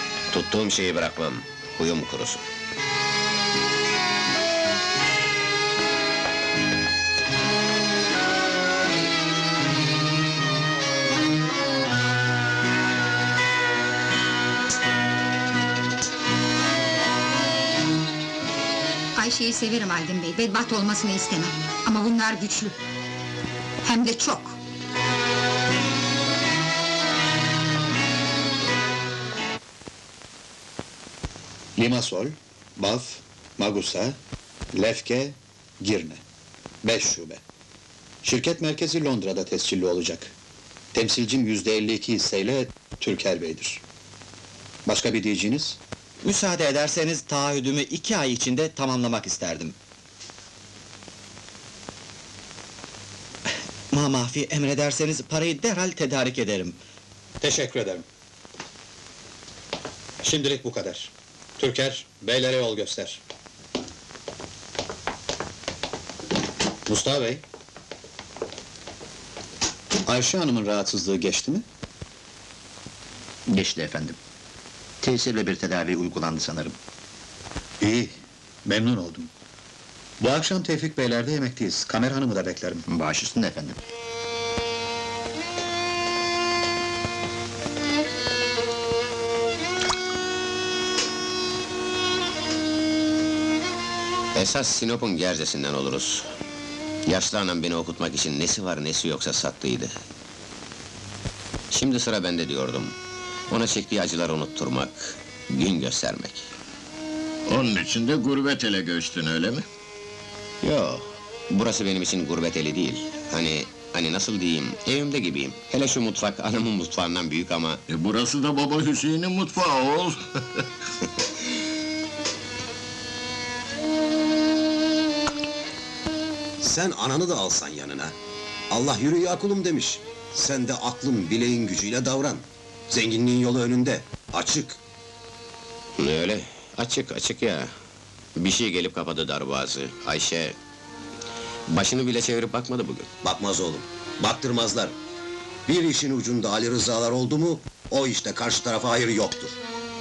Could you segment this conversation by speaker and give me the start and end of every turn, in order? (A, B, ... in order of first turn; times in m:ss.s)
0:00.3-0:02.5 A
0:19.1-0:22.8 B
0:23.8-0:24.6 B
0:31.8-0:34.2 C
0:34.7-0:36.2 C
0:36.8-0:37.4 C
0:38.2-0:40.3 C
0:40.9-0:43.8 C
0:44.8-0:45.8 C
0:46.2-0:49.7 D
0:53.9-0:56.8 D
0:57.4-0:58.0 C
1:00.2-1:03.2 C
1:06.9-1:07.4 C
1:10.0-1:11.6 C
1:13.5-1:14.2 E
1:15.0-1:16.7 E
1:17.8-1:18.1 C
1:18.6-1:19.3 C
1:20.2-1:22.8 C
1:22.9-1:23.8 E
1:34.3-1:36.3 A
1:37.0-1:39.9 A
1:41.7-1:43.0 A
1:43.5-1:46.5 A
1:47.5-1:49.6 F
1:50.6-1:57.8 A
1:57.9-2:00.6 F
2:06.6-2:08.1 G
2:08.7-2:14.8 G
2:16.0-2:17.8 A
2:18.4-2:20.6 A
2:21.7-2:23.1 A
2:23.2-2:24.9 G
2:25.7-2:29.6 G